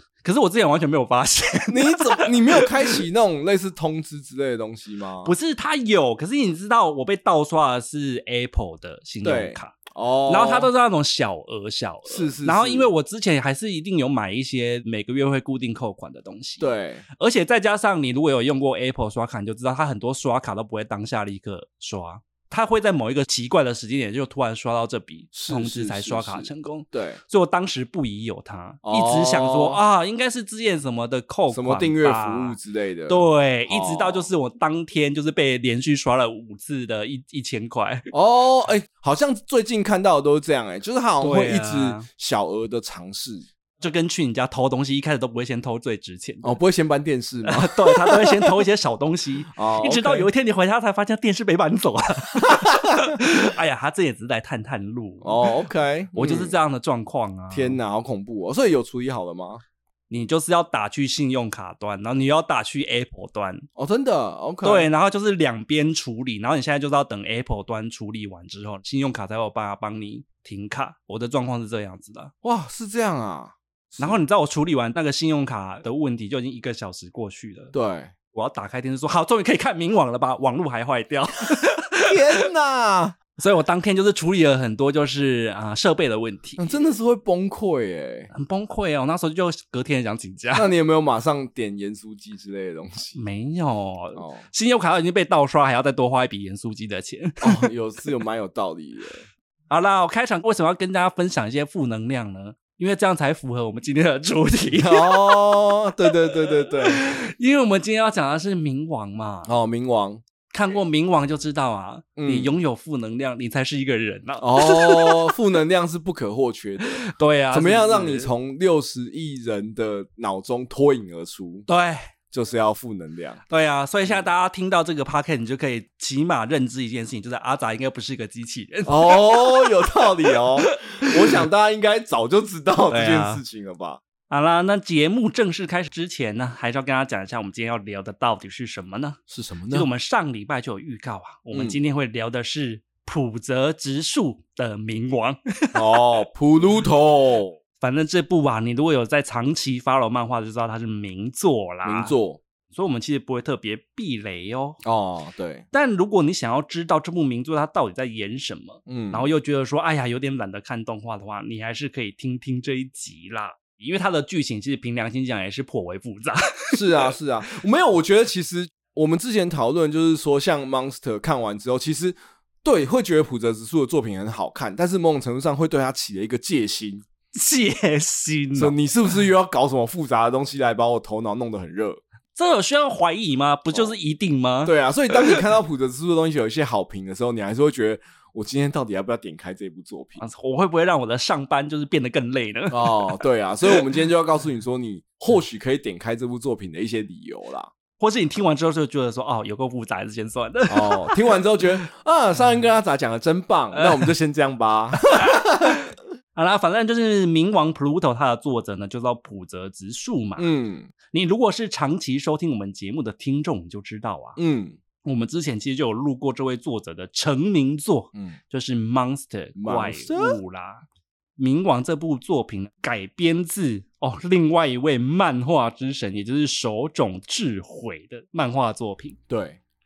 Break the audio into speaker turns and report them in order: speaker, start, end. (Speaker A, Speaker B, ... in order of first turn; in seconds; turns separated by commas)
Speaker A: 0.2-3.0, Speaker B: 1.7-5.3, Speaker A: 5.2-38.1, Speaker B: 9.2-10.7, Speaker B: 12.1-12.9, Speaker B: 16.6-17.0, Speaker B: 25.3-27.2, Speaker B: 28.8-29.8, Speaker B: 31.5-34.3, Speaker B: 38.1-43.5, Speaker A: 41.2-42.1, Speaker A: 43.8-46.6, Speaker B: 46.4-48.6, Speaker A: 47.4-55.5, Speaker B: 49.5-50.3, Speaker B: 52.4-53.1, Speaker B: 55.2-56.6, Speaker A: 56.1-57.8, Speaker B: 57.5-59.6, Speaker A: 60.1-63.7, Speaker B: 63.8-64.9, Speaker A: 64.6-72.3, Speaker B: 72.4-74.2, Speaker A: 74.0-77.7, Speaker B: 77.7-78.1, Speaker A: 78.3-82.4, Speaker B: 82.1-83.2, Speaker A: 83.4-86.8, Speaker B: 86.6-88.3, Speaker A: 88.3-90.7, Speaker B: 90.5-93.2, Speaker A: 93.1-97.7, Speaker B: 94.2-94.4, Speaker B: 97.4-99.3, Speaker A: 99.7-109.5, Speaker B: 104.7-107.0, Speaker B: 109.5-110.2, Speaker A: 110.5-115.3, Speaker B: 112.2-112.5, Speaker B: 114.4-121.7, Speaker A: 116.8-118.3, Speaker A: 121.7-122.1, Speaker B: 122.3-123.4, Speaker A: 123.5-131.4, Speaker B: 128.9-134.0, Speaker A: 132.9-133.4, Speaker A: 134.3-146.0, Speaker B: 139.3-139.9, Speaker B: 141.5-141.8, Speaker B: 145.7-147.6, Speaker A: 147.8-152.1, Speaker B: 151.8-152.4, Speaker A: 152.7-154.8, Speaker B: 154.8-155.6, Speaker A: 155.7-167.1, Speaker B: 158.9-159.3, Speaker B: 166.7-177.0, Speaker A: 177.3-178.8, Speaker B: 178.6-182.0, Speaker A: 182.3-185.4, Speaker B: 184.6-190.2, Speaker A: 190.2-193.7, Speaker B: 192.7-197.7, Speaker A: 198.0-201.8, Speaker B: 200.7-205.8, Speaker A: 203.7-204.1, Speaker A: 205.1-205.8, Speaker A: 206.3-210.5, Speaker B: 210.4-210.9, Speaker A: 211.1-214.4, Speaker B: 214.4-214.8, Speaker A: 215.0-220.8, Speaker B: 219.6-220.4, Speaker A: 221.4-229.2, Speaker B: 229.3-229.6